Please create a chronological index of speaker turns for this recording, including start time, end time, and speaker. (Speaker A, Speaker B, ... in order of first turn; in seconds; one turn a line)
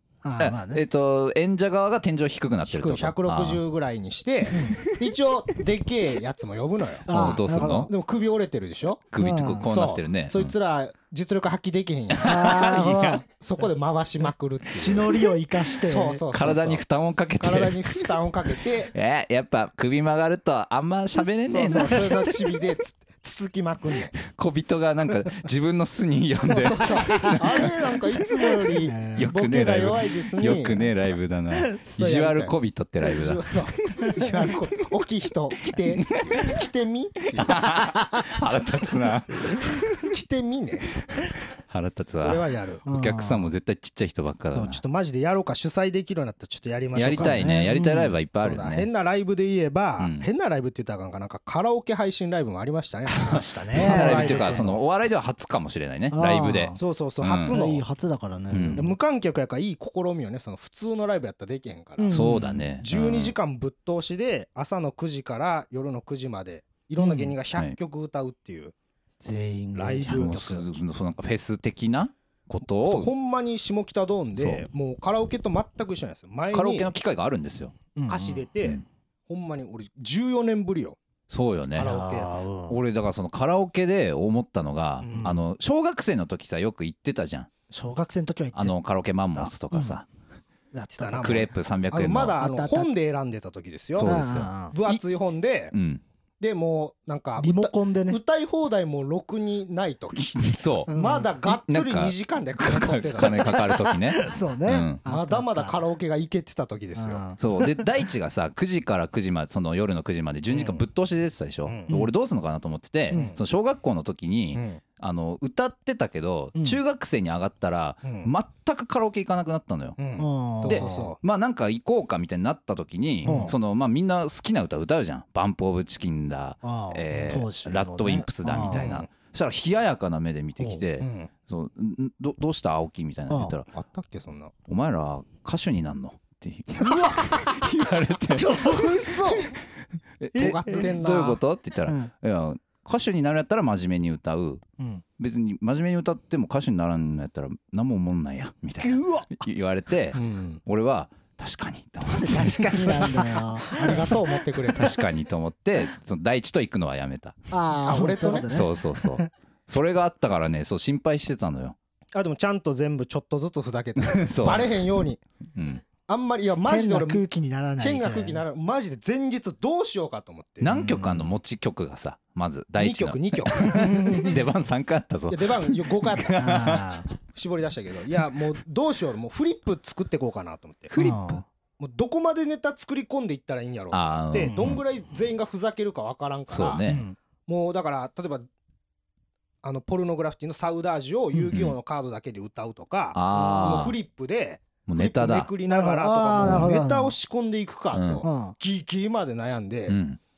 Speaker A: 0.2-0.8
Speaker B: 0.4-3.6
Speaker C: 2.7-7.1
Speaker A: 4.5-4.8
Speaker A: 7.1-7.9
Speaker B: 7.1-7.9
Speaker C: 7.7-9.1
Speaker B: 9.1-10.5
Speaker A: 9.2-9.7
Speaker C: 9.7-15.2
Speaker B: 12.2-13.2
Speaker A: 12.2-13.2
Speaker A: 14.8-16.2
Speaker C: 15.8-16.8
Speaker B: 16.3-18.1
Speaker C: 17.4-18.9
Speaker B: 18.9-22.4
Speaker C: 21.4-24.1
Speaker B: 24.2-27.7
Speaker C: 26.4-30.9
Speaker A: 28.9-29.4
Speaker B: 29.1-34.1
Speaker A: 31.6-31.8
Speaker C: 32.0-32.5
Speaker C: 33.0-37.6
Speaker A: 34.0-34.5
Speaker B: 35.7-36.6
Speaker B: 37.4-40.1
Speaker C: 40.0-40.9
Speaker B: 41.0-44.8
Speaker C: 42.2-42.8
Speaker A: 42.9-43.5
Speaker C: 44.5-47.5
Speaker B: 47.0-48.9
Speaker A: 47.2-48.2
Speaker C: 48.4-54.8
Speaker B: 50.0-50.3
Speaker B: 53.3-57.6
Speaker A: 53.7-54.7
Speaker A: 56.1-56.8
Speaker C: 56.8-57.8
Speaker A: 57.5-59.0
Speaker B: 58.5-58.9
Speaker C: 58.8-68.7
Speaker A: 62.0-62.7
Speaker B: 62.1-63.3
Speaker A: 67.0-67.3
Speaker A: 69.2-70.7
Speaker C: 69.8-70.7
Speaker B: 70.1-73.1
Speaker C: 72.8-76.9
Speaker B: 74.4-74.7
Speaker B: 76.5-77.7
Speaker A: 78.0-78.3
Speaker C: 78.1-81.0
Speaker B: 81.3-82.1
Speaker C: 81.8-82.4
Speaker A: 81.8-82.8
Speaker B: 82.7-87.5
Speaker C: 85.0-85.3
Speaker A: 85.2-85.4
Speaker A: 87.7-88.8
Speaker B: 88.5-90.1
Speaker A: 89.3-90.0
Speaker A: 90.7-91.5
Speaker C: 90.9-95.7
Speaker B: 91.2-92.4
Speaker A: 92.4-92.9
Speaker B: 94.0-95.0
Speaker A: 94.0-94.8
Speaker B: 95.7-96.0
Speaker C: 96.4-103.6
Speaker A: 97.4-98.2
Speaker B: 100.4-105.0
Speaker A: 100.9-101.3
Speaker A: 103.7-105.8
Speaker C: 105.1-107.2
Speaker A: 107.0-107.9
Speaker B: 107.4-120.0
Speaker C: 110.5-110.8
Speaker C: 111.7-111.9
Speaker C: 113.1-113.4
Speaker C: 114.5-114.8
Speaker A: 116.5-116.8
Speaker C: 118.0-118.3
Speaker C: 120.0-121.2
Speaker A: 120.2-121.1
Speaker B: 120.6-133.7
Speaker A: 123.2-123.5
Speaker C: 123.3-123.5
Speaker A: 126.6-128.9
Speaker C: 128.7-129.1
Speaker C: 131.0-131.3
Speaker A: 133.3-133.5
Speaker C: 133.7-134.5
Speaker B: 134.7-139.6
Speaker A: 136.8-137.6
Speaker A: 138.3-139.5
Speaker B: 140.2-144.6
Speaker C: 140.3-141.4
Speaker A: 140.4-140.9
Speaker A: 141.9-142.1
Speaker B: 145.2-152.8
Speaker A: 148.8-149.4
Speaker C: 150.1-150.6
Speaker A: 152.1-154.3
Speaker C: 152.6-155.0
Speaker B: 154.8-157.4
Speaker A: 157.5-159.3
Speaker C: 157.8-158.5
Speaker B: 158.5-161.8
Speaker C: 162.2-165.2
Speaker B: 164.1-164.9
Speaker B: 165.6-165.8
Speaker C: 166.1-167.2
Speaker A: 166.6-168.4
Speaker C: 167.8-170.7
Speaker B: 170.6-177.0
Speaker A: 170.7-171.3
Speaker C: 172.8-174.4
Speaker A: 173.7-174.3
Speaker C: 175.3-176.5
Speaker A: 176.4-177.1
Speaker C: 177.3-180.9
Speaker B: 180.9-181.4
Speaker A: 180.9-181.4
Speaker C: 181.8-186.8
Speaker B: 183.9-184.8
Speaker A: 184.4-184.7
Speaker B: 186.5-187.0
Speaker A: 186.9-187.2
Speaker C: 187.5-188.5
Speaker C: 189.6-200.0
Speaker B: 191.4-191.8
Speaker B: 193.1-194.0
Speaker A: 193.3-193.9
Speaker B: 194.9-195.5
Speaker A: 195.7-197.2
Speaker B: 196.4-196.7
Speaker B: 197.9-198.2
Speaker A: 198.2-198.6
Speaker B: 199.9-200.2